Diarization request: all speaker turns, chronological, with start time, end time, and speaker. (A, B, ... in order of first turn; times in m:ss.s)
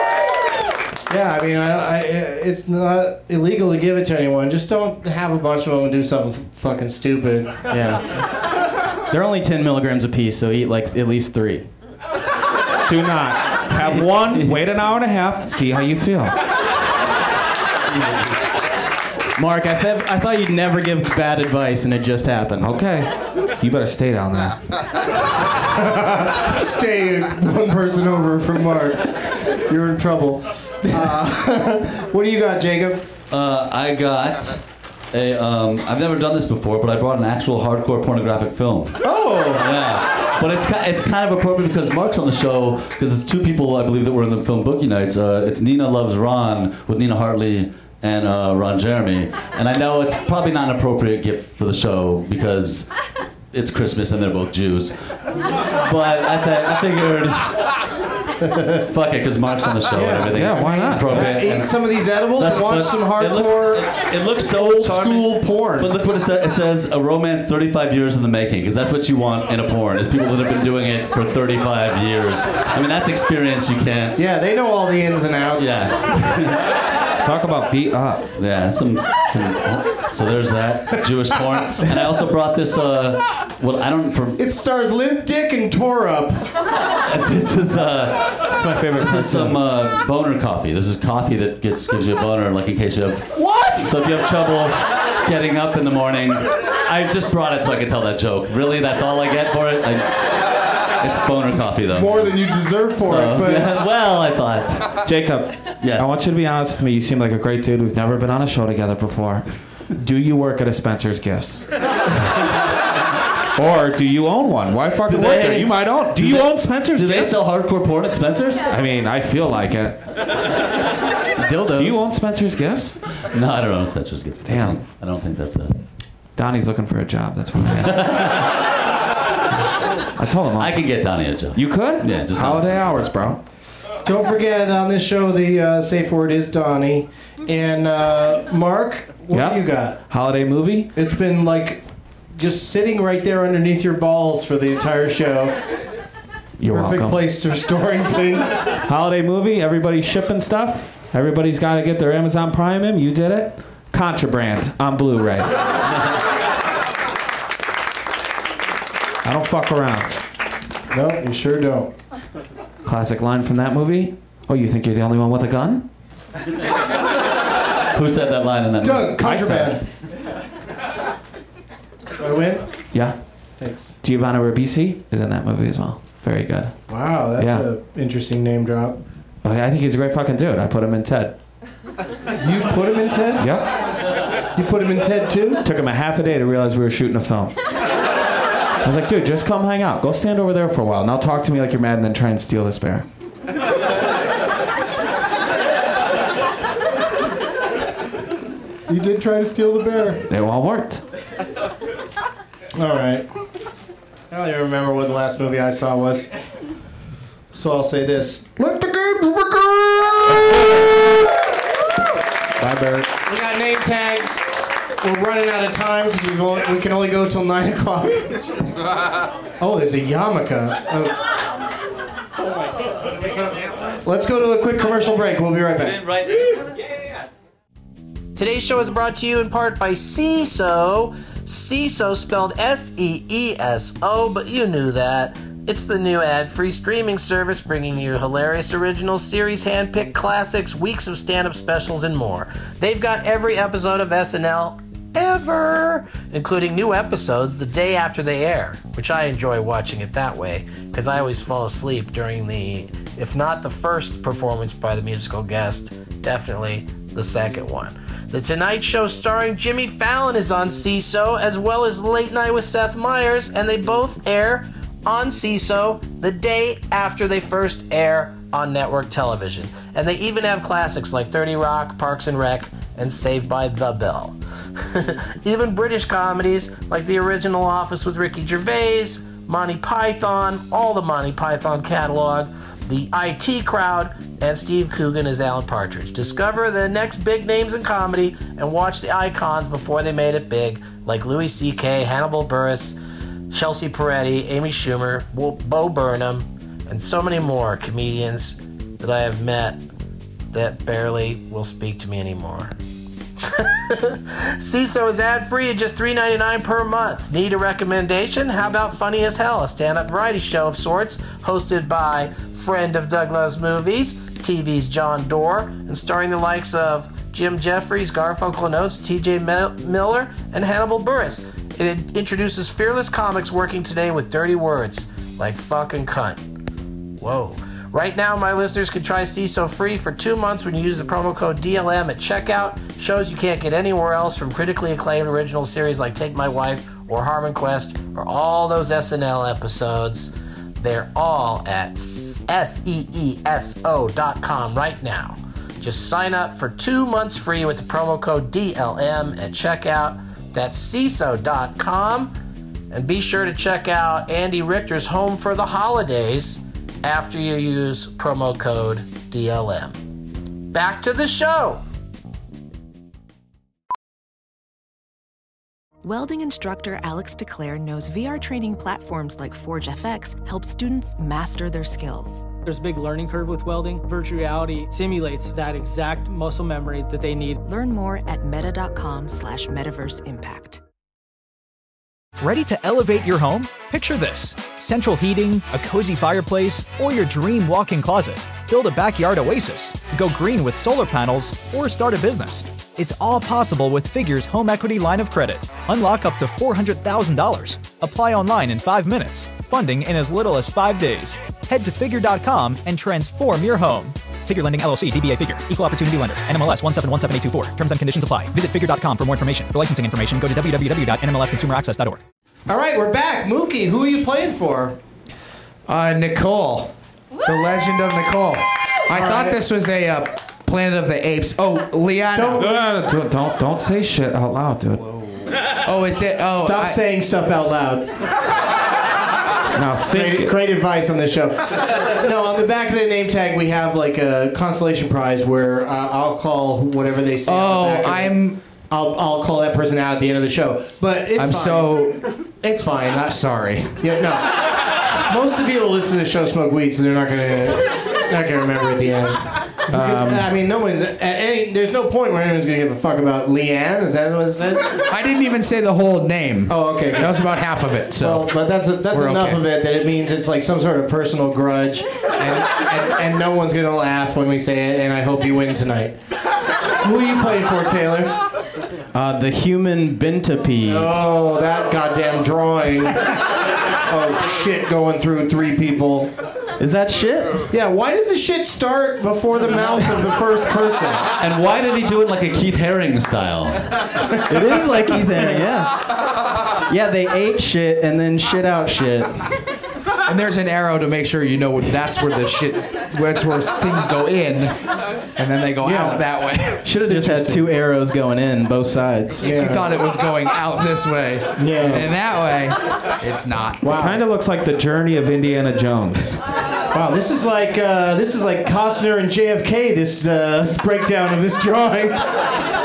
0:01.1-0:07.6 A
0:07.7-0:08.2 B
0:09.1-0:11.7 B
0:12.9-0:16.4 C
0:19.4-0:22.7 B
0:22.6-0:24.6 C
0:25.8-0:33.0 A
0:33.3-0:52.9 D
0:39.0-0:39.6 A
0:53.5-0:55.0 D
0:55.5-0:57.7 D
0:58.6-1:14.2 D
0:59.9-1:03.9 A
1:00.3-1:01.6 C
1:04.4-1:05.9 A
1:14.2-1:15.9 A
1:15.6-1:16.6 D
1:17.2-1:18.3 C
1:18.4-1:24.4 D
1:24.4-1:26.5 A
1:27.0-1:40.4 D
1:28.5-1:29.6 C
1:33.3-1:33.9 A
1:41.0-1:45.0 D
1:41.9-1:43.8 A
1:45.0-1:51.7 C
1:45.8-1:46.1 D
1:53.6-1:57.3 C
1:55.0-1:58.6 D
1:58.7-2:00.0 C
2:01.4-2:02.1 B
2:01.7-2:03.0 C
2:03.2-2:05.8 D
2:04.4-2:04.8 C
2:06.4-2:08.2 C
2:07.8-2:08.5 D
2:10.2-2:10.8 C
2:10.6-2:13.1 D
2:11.5-2:13.4 C
2:14.0-2:20.0 A
2:19.3-2:20.9 C
2:20.9-2:21.8 A
2:22.4-2:25.6 A
2:26.6-2:27.2 C
2:26.7-2:28.6 A
2:28.9-2:35.6 C
2:39.2-2:40.2 C
2:40.9-2:41.9 A
2:42.8-2:45.9 C
2:47.9-2:49.2 D
2:48.8-2:49.8 A
2:49.2-2:49.8 C
2:52.2-2:52.7 A
2:53.6-2:53.9 A
2:54.0-2:56.8 C
2:56.9-2:59.0 A
2:57.4-2:57.7 C
2:59.4-3:01.4 C
3:02.4-3:03.4 A
3:03.4-3:03.7 C
3:04.5-3:05.6 A
3:05.6-3:07.5 C
3:08.8-3:13.0 C
3:18.9-3:20.2 A
3:20.3-3:21.0 C
3:22.7-3:23.2 A
3:24.3-3:26.3 A
3:27.5-3:30.7 A
3:32.6-3:34.4 A
3:35.0-3:38.6 A
3:39.6-3:41.1 A
3:44.0-3:46.0 A
3:45.9-3:46.5 D
3:48.4-4:53.0 E
4:53.5-4:59.8 E
5:00.5-5:02.7 E
5:03.4-5:26.4 E
5:27.2-5:52.4 E
5:52.9-6:00.0 E
6:00.7-6:01.8 E
6:06.0-6:12.5 F
6:12.6-6:17.6 G
6:17.6-6:20.8 F
6:22.4-6:52.2 H
6:52.7-6:55.0 A
6:55.9-6:56.9 I
6:57.4-7:02.7 I
6:59.1-6:59.6 A
7:02.3-7:02.7 A
7:02.6-7:05.1 C
7:05.8-7:07.0 I
7:06.5-7:08.1 A
7:09.7-7:10.6 C
7:10.1-7:22.0 A
7:17.4-7:18.6 I
7:21.4-7:22.2 I
7:22.6-7:23.4 A
7:23.3-7:24.0 I
7:24.0-7:24.6 A
7:25.2-7:35.0 A
7:29.9-7:30.5 I
7:35.1-7:38.6 I
7:36.7-7:37.3 A
7:38.2-7:46.2 A
7:39.1-7:39.6 I
7:47.0-7:48.3 A
7:49.1-7:51.1 B
7:50.9-7:53.3 A
7:54.1-7:56.3 A
7:56.8-7:57.7 B
7:57.7-8:01.2 A
8:01.4-8:03.9 D
8:04.5-8:06.0 B
8:06.9-8:09.6 B
8:10.2-8:14.8 I
8:15.4-8:16.9 I
8:15.8-8:16.2 A
8:16.8-8:19.4 B
8:17.0-8:17.6 A
8:19.4-8:19.8 A
8:19.4-8:23.8 I
8:21.6-8:22.1 A
8:23.8-8:24.2 A
8:23.9-8:26.4 C
8:26.9-8:32.3 A